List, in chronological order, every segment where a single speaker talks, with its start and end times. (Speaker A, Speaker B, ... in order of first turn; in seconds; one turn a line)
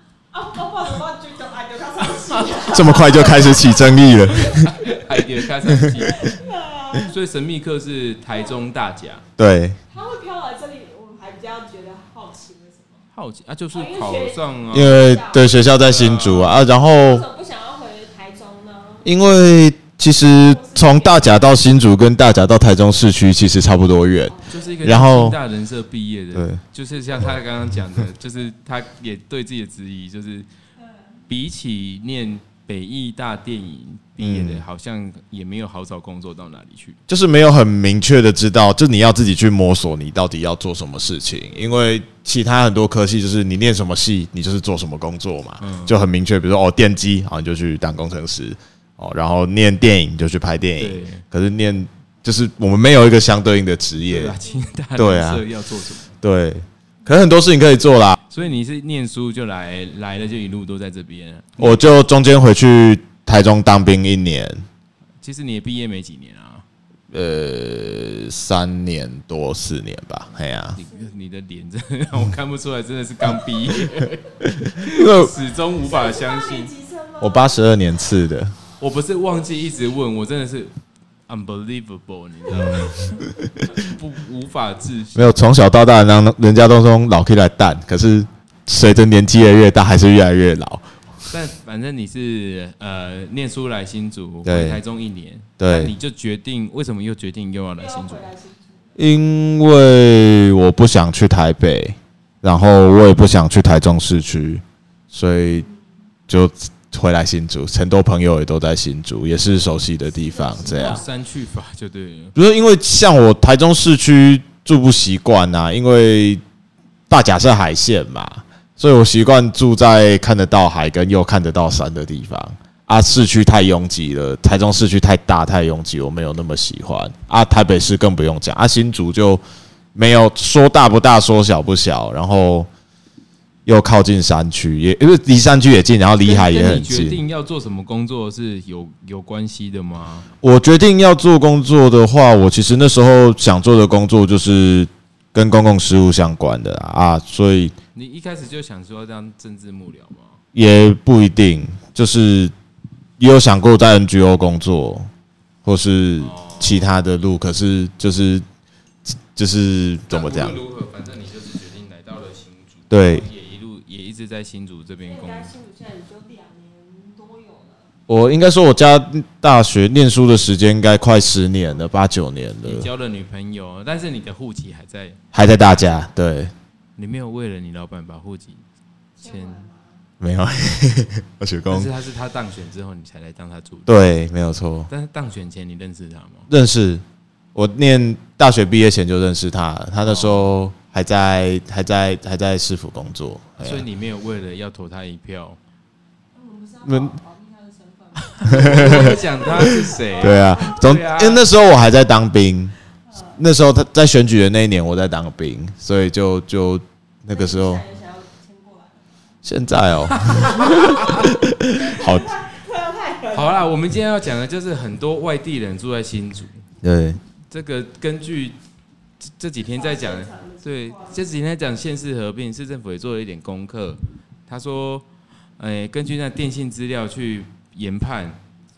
Speaker A: 0.3-5.1
Speaker B: 2.7-4.7
Speaker C: 4.5-6.4
Speaker A: 6.0-7.2
Speaker C: 7.1-9.2
Speaker A: 8.3-8.6
Speaker B: 9.4-9.8
Speaker A: 9.9-13.1
Speaker C: 13.1-15.0
Speaker A: 13.7-15.5
Speaker B: 14.7-17.2
Speaker C: 15.8-16.6
Speaker A: 16.9-19.1
Speaker B: 19.0-25.4
Speaker A: 20.2-21.6
Speaker A: 24.3-24.8
Speaker C: 24.5-30.5
Speaker B: 26.3-26.6
Speaker A: 30.8-31.2
Speaker C: 31.3-37.0
Speaker B: 34.2-34.6
Speaker B: 37.1-54.4
Speaker C: 45.6-46.0
Speaker C: 50.8-51.2
Speaker C: 54.1-56.2
Speaker B: 55.0-55.4
Speaker B: 56.2-58.2
Speaker C: 58.3-61.9
Speaker B: 61.6-64.6
Speaker C: 65.2-66.6
Speaker B: 67.1-70.8
Speaker C: 70.7-76.7
Speaker A: 70.9-71.1
Speaker B: 74.6-75.3
Speaker A: 75.8-77.7
Speaker B: 77.2-78.5
Speaker C: 78.8-80.8
Speaker A: 79.3-80.0
Speaker C: 81.3-85.4
Speaker B: 82.5-83.1
Speaker B: 85.1-90.9
Speaker C: 91.3-98.3
Speaker B: 94.4-94.8
Speaker B: 95.6-95.9
Speaker A: 97.8-99.0
Speaker B: 99.0-105.7
Speaker A: 105.5-106.0
Speaker B: 106.3-111.0
Speaker A: 110.0-111.1
Speaker C: 110.6-112.3
Speaker B: 112.3-116.4
Speaker B: 117.1-129.4
Speaker B: 129.9-132.7
Speaker B: 133.7-137.2
Speaker C: 136.2-140.3
Speaker B: 140.4-147.7
Speaker C: 147.9-150.4
Speaker B: 150.5-152.5
Speaker B: 153.2-155.1
Speaker B: 155.6-158.4
Speaker C: 156.2-156.9
Speaker B: 159.1-160.6
Speaker C: 160.1-165.5
Speaker B: 162.9-163.2
Speaker A: 165.0-167.9
Speaker B: 168.1-172.9
Speaker C: 172.6-175.2
Speaker B: 175.3-176.5
Speaker C: 177.0-178.6
Speaker A: 179.2-180.1
Speaker C: 179.2-179.7
Speaker B: 180.2-181.9
Speaker C: 181.7-184.0
Speaker B: 183.8-184.9
Speaker C: 184.9-186.5
Speaker B: 186.5-187.0
Speaker B: 187.5-193.8
Speaker C: 190.0-190.5
Speaker C: 193.6-195.6
Speaker A: 196.3-200.9
Speaker B: 196.8-197.2
Speaker C: 198.2-201.5
Speaker B: 198.5-202.7
Speaker A: 203.1-203.4
Speaker B: 203.3-207.8
Speaker A: 207.3-209.1
Speaker B: 209.4-212.3
Speaker C: 210.1-211.3
Speaker A: 210.3-213.6
Speaker C: 213.3-216.7
Speaker B: 216.8-217.2
Speaker C: 217.5-218.6
Speaker C: 219.2-225.1
Speaker A: 219.6-221.2
Speaker C: 225.6-228.4